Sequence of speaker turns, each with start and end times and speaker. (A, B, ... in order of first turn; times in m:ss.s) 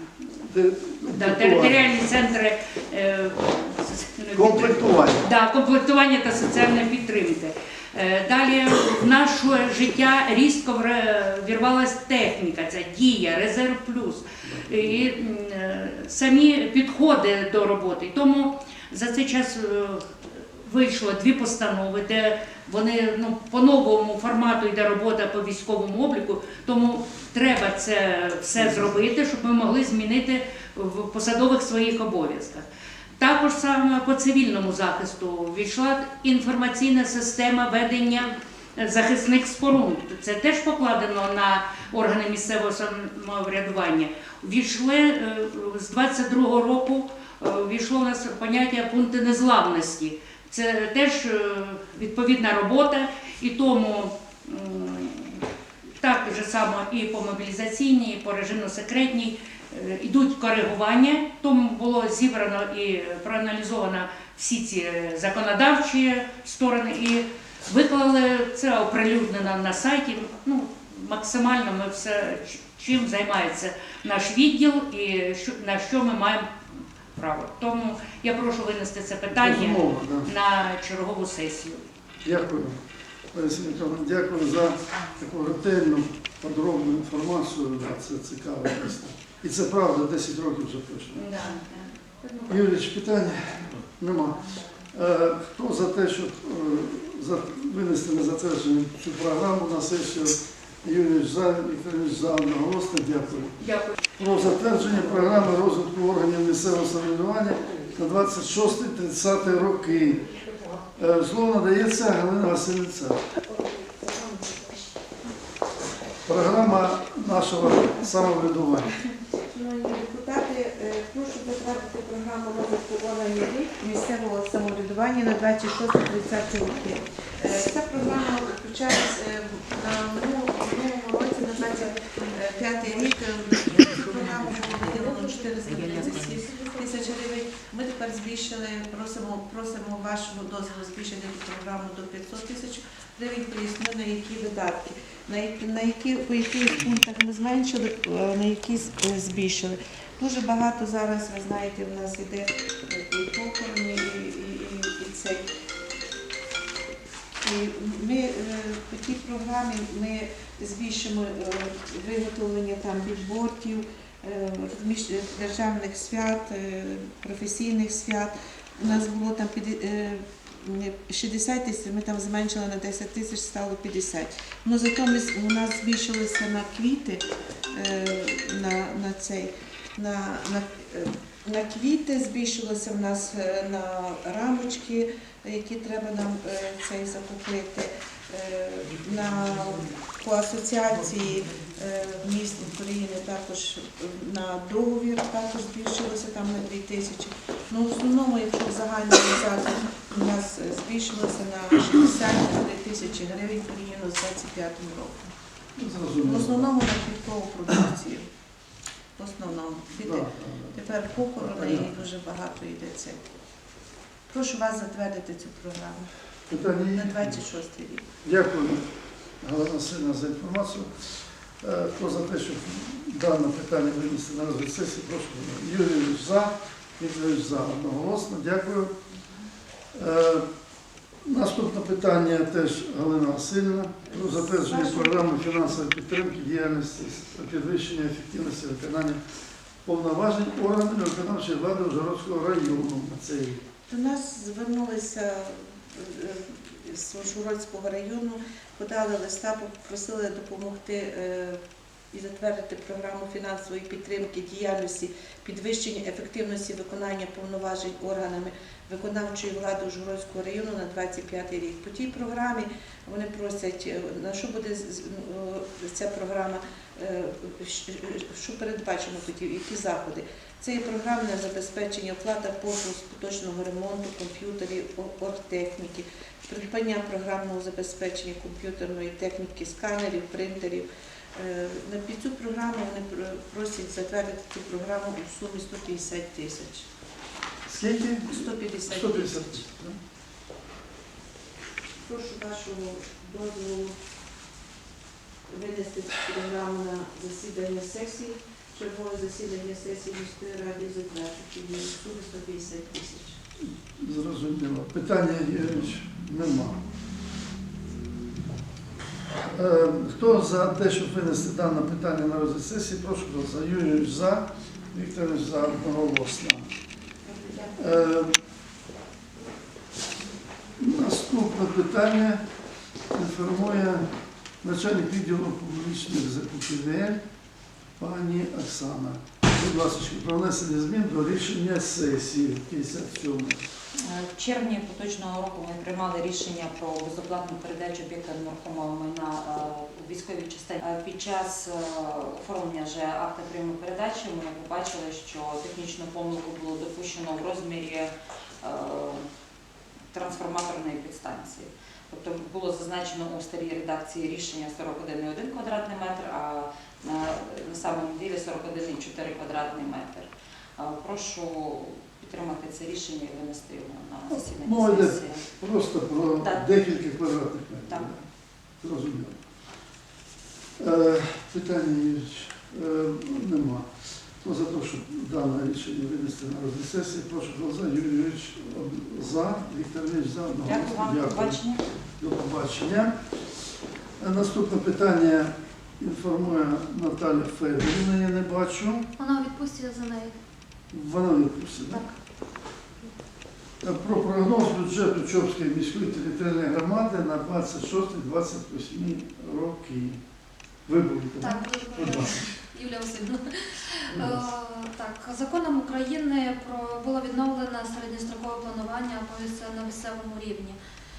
0:00.5-0:01.8 A
0:01.1-0:32.6 B
0:04.3-0:05.2 A
0:14.4-0:15.0 A
0:28.6-0:29.0 A
0:33.2-0:55.4 B
0:56.0-1:16.5 B
1:17.1-1:21.8 B
1:19.3-1:20.3 A
1:22.2-1:22.8 A
1:23.3-1:31.2 A
1:31.1-1:32.7 B
1:32.5-1:43.6 A
1:43.6-1:44.0 B
1:44.2-1:50.2 A
1:51.0-1:53.2 A
1:54.0-1:54.5 C
1:56.2-1:59.0 A
1:59.4-2:35.5 C
2:13.8-2:14.4 B
2:15.8-2:16.0 B
2:37.4-3:25.3 C
3:25.8-3:26.7 A
3:26.2-3:28.3 C
3:29.2-3:33.2 C
3:30.0-3:30.8 A
3:31.4-3:32.0 A
3:34.3-3:36.1 C
3:36.5-3:37.4 A
3:36.9-3:38.1 C
3:38.2-3:38.9 A
3:39.4-3:40.9 A
3:41.6-3:48.9 A
3:49.9-3:50.4 A
3:51.3-3:59.2 A
3:54.1-3:55.6 C
3:59.8-4:03.6 A
4:03.9-4:11.6 C
4:12.1-4:46.8 C
4:47.6-4:50.0 A
4:48.2-4:49.6 C
4:52.0-4:54.0 C
4:55.5-5:03.4 C
5:04.0-5:06.8 A
5:09.4-5:16.7 A
5:17.2-5:18.1 C
5:17.8-5:18.3 A
5:20.8-5:22.4 A
5:23.1-5:24.0 A
5:24.6-5:27.2 A
5:28.0-5:33.6 A
5:34.0-5:48.1 D
5:48.6-5:49.2 D
5:50.1-6:05.4 D
6:04.3-6:08.2 A
6:06.4-6:06.8 D
6:08.8-6:09.4 A
6:10.8-6:13.9 A
6:14.4-6:21.6 A
6:20.7-6:21.8 D
6:22.2-6:23.1 A
6:24.2-6:29.1 A
6:29.2-6:30.3 E
6:30.9-6:32.0 A
6:33.8-6:40.2 A
6:40.8-6:42.5 A
6:41.4-6:50.8 E
6:44.1-6:44.4 A